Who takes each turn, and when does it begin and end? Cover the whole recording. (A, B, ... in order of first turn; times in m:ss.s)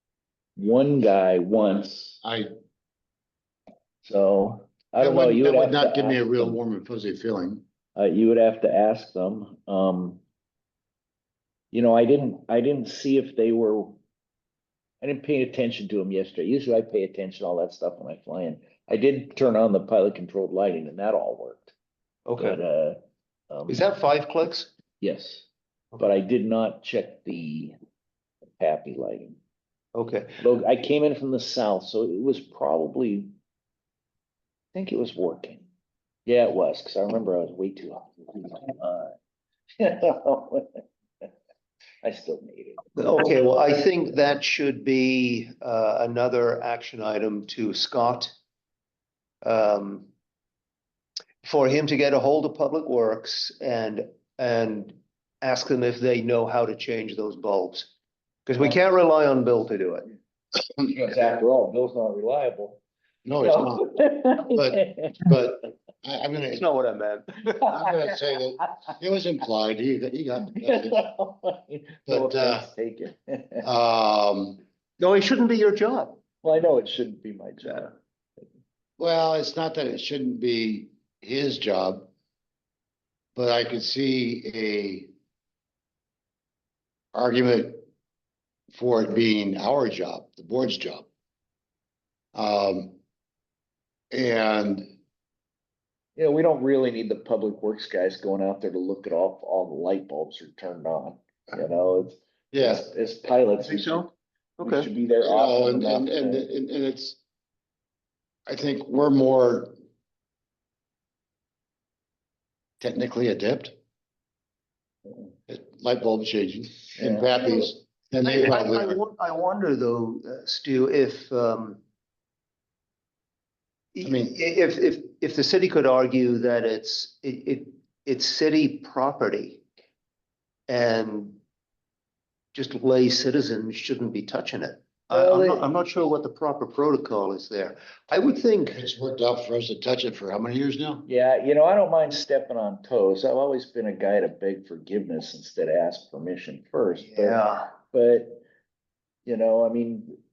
0:00.6-0:02.2 A
0:02.2-0:02.5 B
0:04.0-0:06.6 A
0:05.0-0:07.6 B
0:08.0-0:10.2 A
0:11.7-0:14.0 A
0:15.0-0:21.7 A
0:22.3-0:22.6 C
0:22.4-0:23.0 A
0:23.5-0:23.8 A
0:23.7-0:24.7 C
0:25.0-0:25.5 A
0:26.0-0:27.8 A
0:28.6-0:29.4 A
0:30.0-0:30.4 C
0:30.4-0:33.3 A
0:34.7-0:35.6 A
0:36.3-0:39.1 A
0:39.8-0:41.3 A
0:42.0-0:43.0 A
0:43.0-0:48.3 C
0:49.4-0:50.1 C
0:51.4-0:57.9 C
0:58.5-1:00.1 C
1:00.9-1:02.8 A
1:03.2-1:06.7 B
1:03.4-1:05.1 A
1:06.6-1:07.7 C
1:07.7-1:11.0 B
1:10.6-1:13.7 A
1:12.1-1:12.7 B
1:13.6-1:14.6 B
1:15.0-1:16.2 C
1:16.4-1:17.9 A
1:19.0-1:22.1 B
1:23.4-1:25.1 B
1:27.1-1:27.8 B
1:28.7-1:31.1 B
1:32.3-1:33.0 B
1:34.1-1:35.0 B
1:36.2-1:44.1 A
1:42.5-1:42.9 B
1:43.6-1:44.0 C
1:44.6-1:44.9 C
1:44.6-1:46.4 A
1:45.2-1:47.2 B
1:48.5-1:49.8 B
1:52.8-1:53.8 B
1:55.5-1:59.0 B
1:57.0-1:57.3 A
1:58.2-2:01.8 C
2:04.0-2:09.6 C
2:04.0-2:04.3 B
2:10.7-2:11.4 C
2:12.5-2:18.8 C
2:15.1-2:15.7 A
2:18.7-2:21.1 B
2:21.1-2:28.4 A
2:27.1-2:27.7 C
2:29.3-2:30.2 A